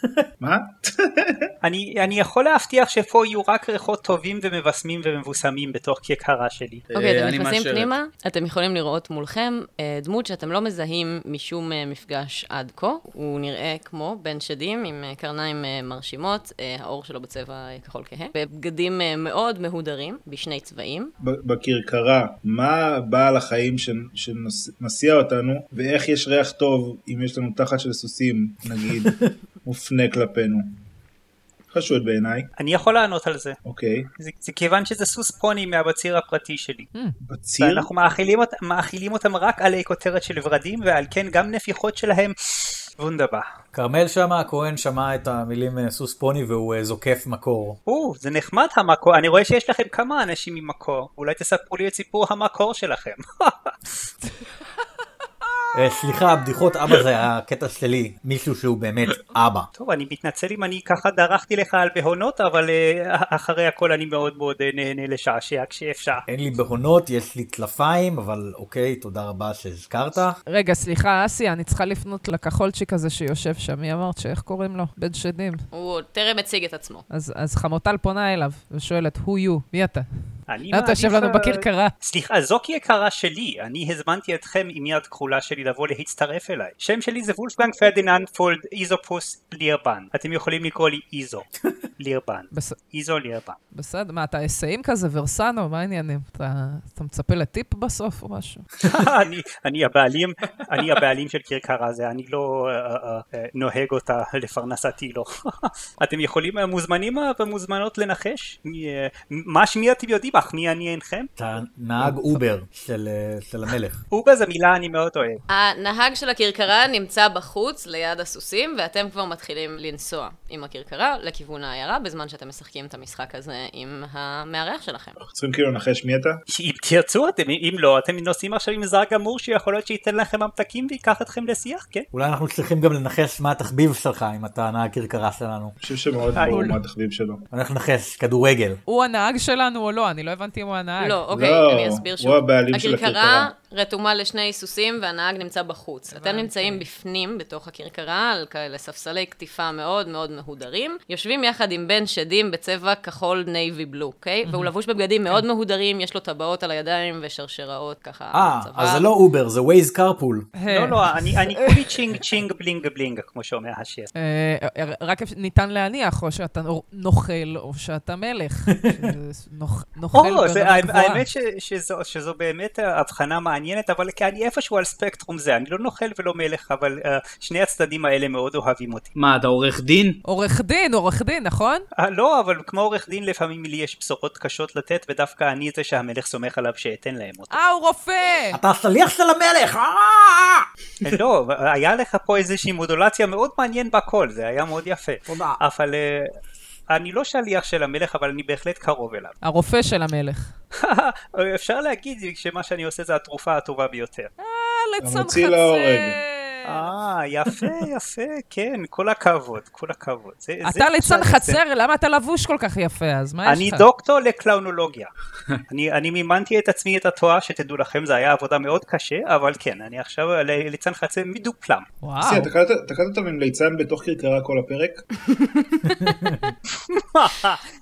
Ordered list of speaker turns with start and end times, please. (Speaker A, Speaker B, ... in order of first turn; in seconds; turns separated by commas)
Speaker A: 0.4-1.5, Speaker B: 1.6-6.8, Speaker C: 6.9-7.9, Speaker D: 6.9-21.1, Speaker A: 21.2-30.7, Speaker A: 31.7-32.5, Speaker B: 32.6-33.6, Speaker A: 33.6-34.1, Speaker B: 34.2-36.9, Speaker A: 37.2-37.9, Speaker B: 37.6-42.3, Speaker B: 43.0-43.5, Speaker E: 43.7-47.8, Speaker B: 47.9-54.0, Speaker E: 55.7-59.7, Speaker B: 59.7-66.2, Speaker E: 66.3-70.4, Speaker F: 70.5-75.6, Speaker D: 75.7-77.0, Speaker F: 77.1-80.0, Speaker B: 80.5-93.6, Speaker F: 80.7-81.9, Speaker F: 92.5-92.8, Speaker F: 93.7-98.7, Speaker B: 98.8-111.3, Speaker E: 111.4-114.0, Speaker B: 114.1-115.4, Speaker D: 115.5-125.2, Speaker A: 125.2-126.4, Speaker B: 126.5-132.1, Speaker E: 132.1-135.8, Speaker A: 135.8-137.4, Speaker B: 136.3-136.6, Speaker F: 136.3-136.8, Speaker E: 137.5-138.8, Speaker F: 138.9-141.2, Speaker D: 141.0-159.1, Speaker A: 141.3-143.5, Speaker F: 146.1-146.8, Speaker F: 154.4-154.7, Speaker E: 158.3-160.5, Speaker F: 160.6-162.2, Speaker B: 160.7-164.1, Speaker F: 164.1-171.2, Speaker E: 168.8-169.1, Speaker B: 170.1-179.1, Speaker C: 179.2-180.2, Speaker F: 180.2-181.8, Speaker B: 182.0-187.6, Speaker F: 187.5-188.6, Speaker E: 188.5-190.7, Speaker B: 191.0-196.3, Speaker E: 195.3-195.6, Speaker B: 196.9-199.3, Speaker F: 199.4-200.5, Speaker B: 200.8-204.3, Speaker F: 204.4-206.9, Speaker A: 205.0-206.2, Speaker B: 206.6-211.6, Speaker F: 210.6-213.9, Speaker B: 213.4-215.1, Speaker B: 215.7-221.8, Speaker F: 222.0-222.5, Speaker A: 222.2-225.0, Speaker D: 225.3-226.2, Speaker B: 226.9-227.6